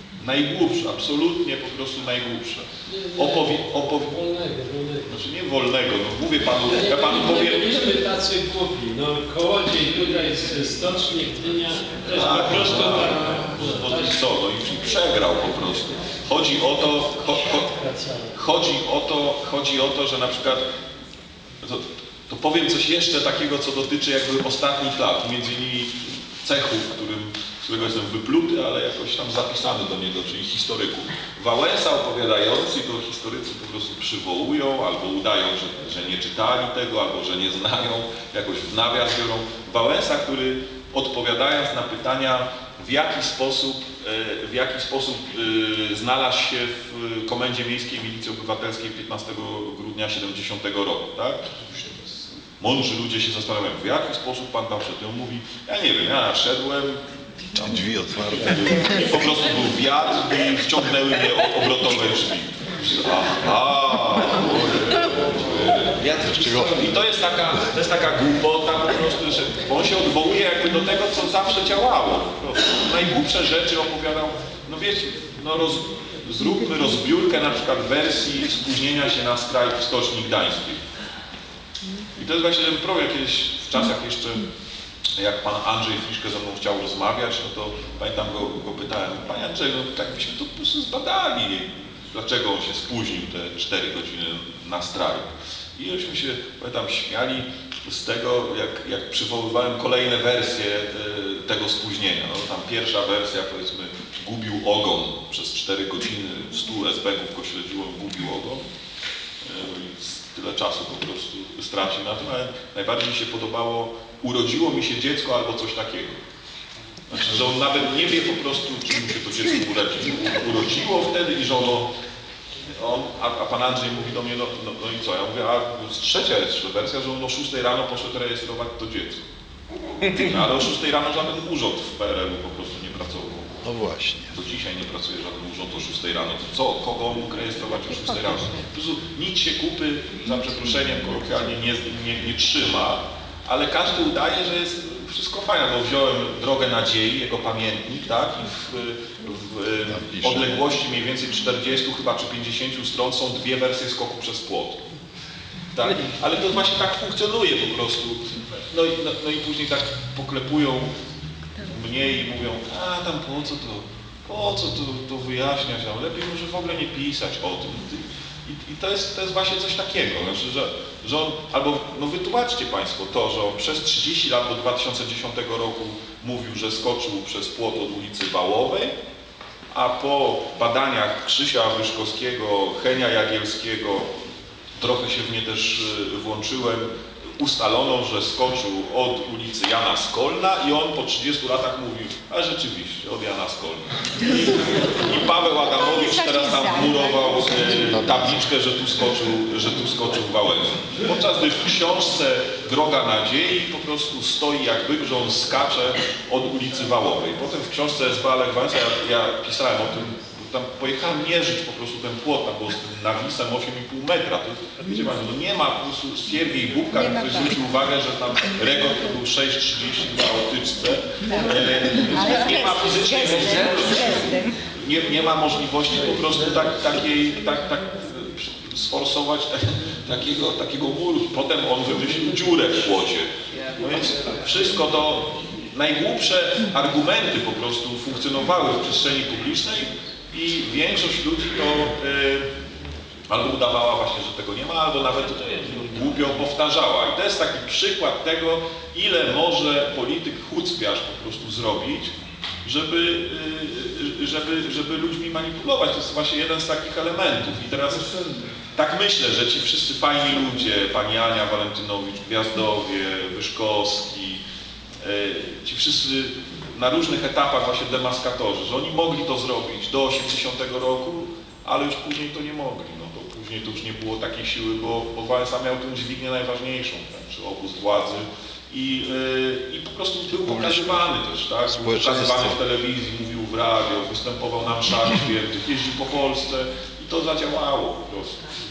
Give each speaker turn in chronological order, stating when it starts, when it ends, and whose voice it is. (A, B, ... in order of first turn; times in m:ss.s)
0:00.2-0:04.2 A
0:02.9-0:03.6 B
0:04.1-0:05.1 B
0:05.1-0:07.8 A
0:06.8-0:14.1 B
0:12.1-0:17.7 A
0:18.3-0:20.7 A
0:21.6-0:51.4 A
0:52.6-0:57.0 A
0:57.5-0:59.1 C
0:58.4-1:20.8 A
1:06.3-1:06.8 C
1:22.2-1:24.5 A
1:25.2-1:48.6 A
1:49.4-1:56.2 A
1:57.1-2:01.9 A
2:02.8-2:09.2 A
2:10.0-2:13.5 A
2:13.6-2:14.3 C
2:14.3-2:34.8 A
2:29.9-2:30.5 C
2:35.7-2:40.9 A
2:41.6-2:59.0 A
2:59.7-3:04.1 A
3:04.8-4:02.5 A
4:03.3-4:12.1 A
4:12.6-4:18.1 A
4:18.8-4:24.4 A
4:25.0-4:48.4 A
4:40.4-4:41.1 C
4:41.7-4:42.6 C